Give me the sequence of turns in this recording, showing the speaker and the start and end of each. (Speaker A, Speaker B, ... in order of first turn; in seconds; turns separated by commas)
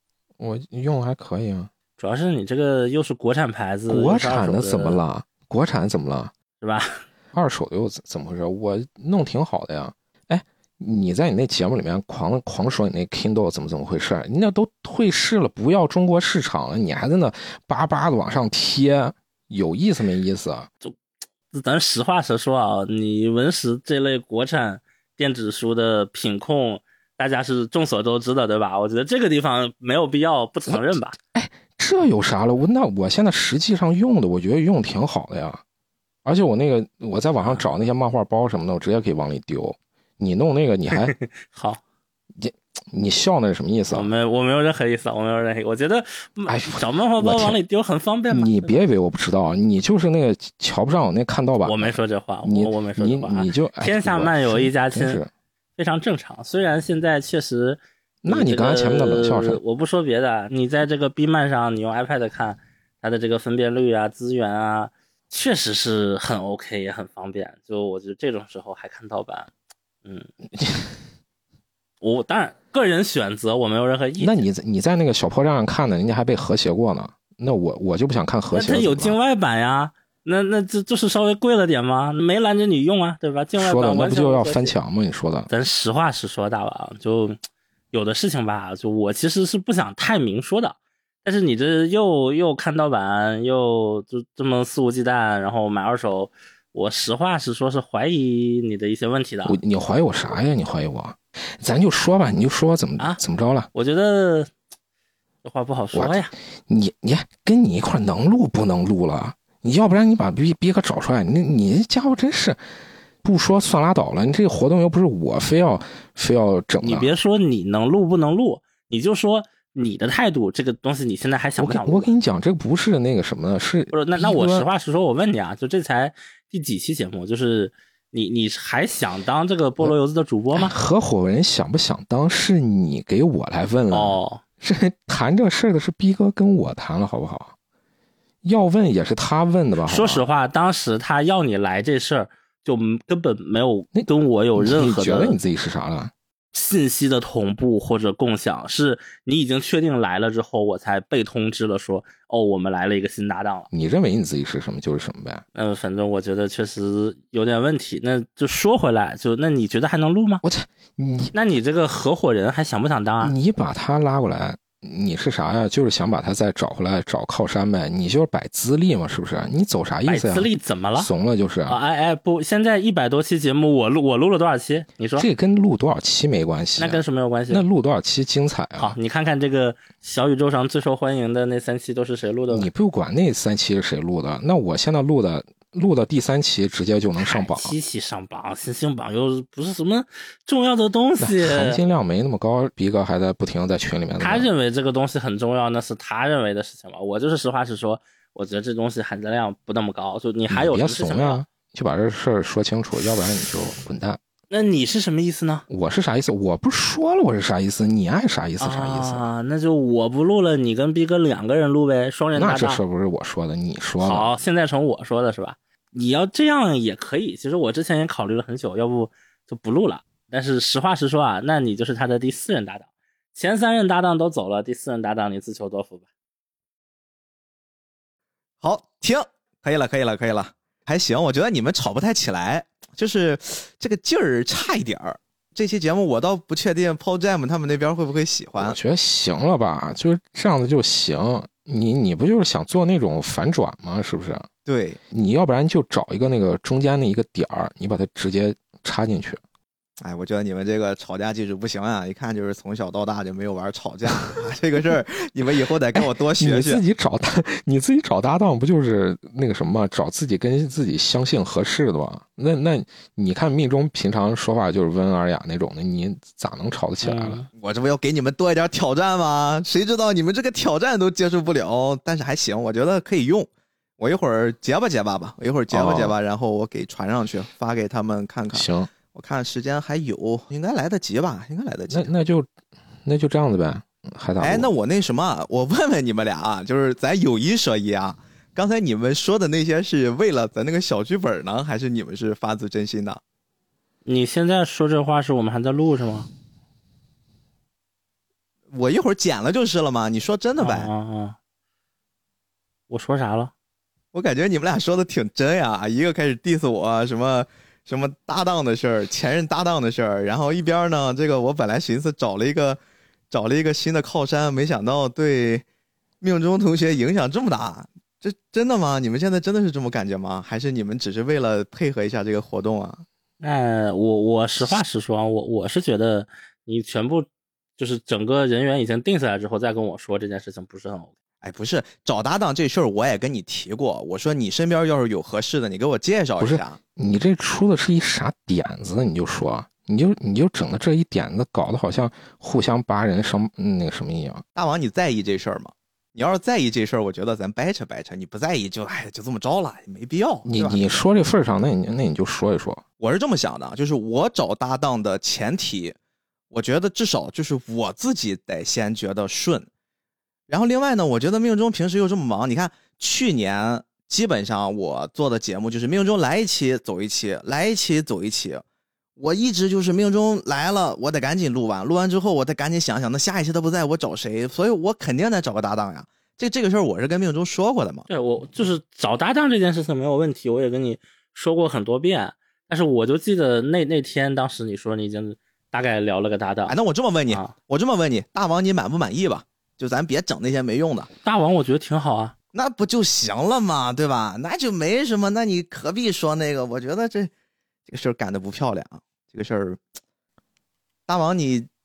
Speaker A: 0.4-1.7, Speaker B: 2.0-5.0, Speaker A: 3.9-6.3, Speaker B: 6.6-7.0, Speaker A: 7.3-20.7, Speaker B: 21.5-31.2, Speaker A: 30.7-35.6, Speaker A: 36.2-41.1, Speaker B: 37.4-37.7, Speaker B: 41.2-41.8, Speaker A: 42.3-44.1, Speaker B: 43.9-48.8, Speaker A: 46.5-47.6, Speaker A: 48.3-55.3, Speaker B: 51.6-55.2, Speaker B: 55.8-69.5, Speaker A: 58.2-59.6, Speaker B: 70.0-70.3, Speaker A: 70.6-70.9, Speaker B: 72.0-74.4, Speaker A: 74.2-79.2, Speaker B: 78.5-84.7, Speaker A: 83.6-85.5, Speaker B: 85.5-87.4, Speaker B: 87.9-99.6, Speaker A: 99.5-103.7, Speaker B: 103.7-104.5, Speaker B: 105.5-106.3, Speaker A: 105.9-112.6, Speaker A: 113.2-117.1, Speaker B: 116.8-122.1, Speaker A: 121.6-124.7, Speaker B: 123.9-130.7, Speaker A: 130.5-137.6, Speaker B: 133.9-134.4, Speaker A: 138.4-140.2, Speaker B: 139.8-145.4, Speaker A: 143.9-146.1, Speaker B: 146.5-153.7, Speaker A: 153.7-155.4, Speaker B: 155.6-160.4, Speaker A: 160.4-161.3, Speaker B: 161.3-163.3, Speaker A: 163.2-171.8, Speaker B: 170.1-171.1, Speaker B: 171.7-175.3, Speaker A: 175.2-179.0, Speaker B: 176.8-177.7, Speaker B: 178.8-182.7, Speaker A: 182.5-187.8, Speaker B: 187.2-191.8, Speaker A: 191.2-194.5, Speaker B: 194.2-201.4, Speaker A: 200.5-204.2, Speaker B: 204.5-205.7, Speaker A: 205.7-209.3, Speaker B: 208.6-212.8, Speaker A: 212.4-214.3, Speaker B: 214.0-226.1, Speaker C: 228.6-238.8, Speaker A: 238.6-244.5, Speaker C: 244.7-245.0, Speaker A: 245.1-249.4, Speaker C: 250.0-256.8, Speaker A: 255.9-267.4, Speaker B: 267.0-267.5, Speaker C: 267.6-273.5, Speaker C: 274.0-282.1, Speaker A: 275.7-276.2, Speaker A: 278.5-278.9, Speaker A: 281.9-282.5, Speaker A: 283.1-284.7, Speaker C: 284.4-293.2, Speaker B: 294.1-296.3, Speaker C: 298.7-300.9, Speaker B: 300.6-301.4, Speaker B: 302.9-303.5, Speaker C: 304.1-312.8, Speaker C: 313.3-315.7, Speaker C: 316.2-323.1, Speaker B: 323.4-331.1, Speaker C: 331.4-336.8, Speaker A: 336.4-344.4, Speaker C: 344.5-351.0, Speaker A: 350.4-352.8, Speaker C: 353.0-356.0, Speaker C: 356.5-359.7, Speaker C: 360.5-368.6, Speaker C: 369.2-378.1, Speaker B: 378.1-386.8, Speaker C: 386.7-391.1, Speaker B: 387.3-387.5, Speaker B: 391.2-392.3, Speaker C: 392.5-397.3, Speaker C: 397.9-399.8, Speaker C: 401.1-401.7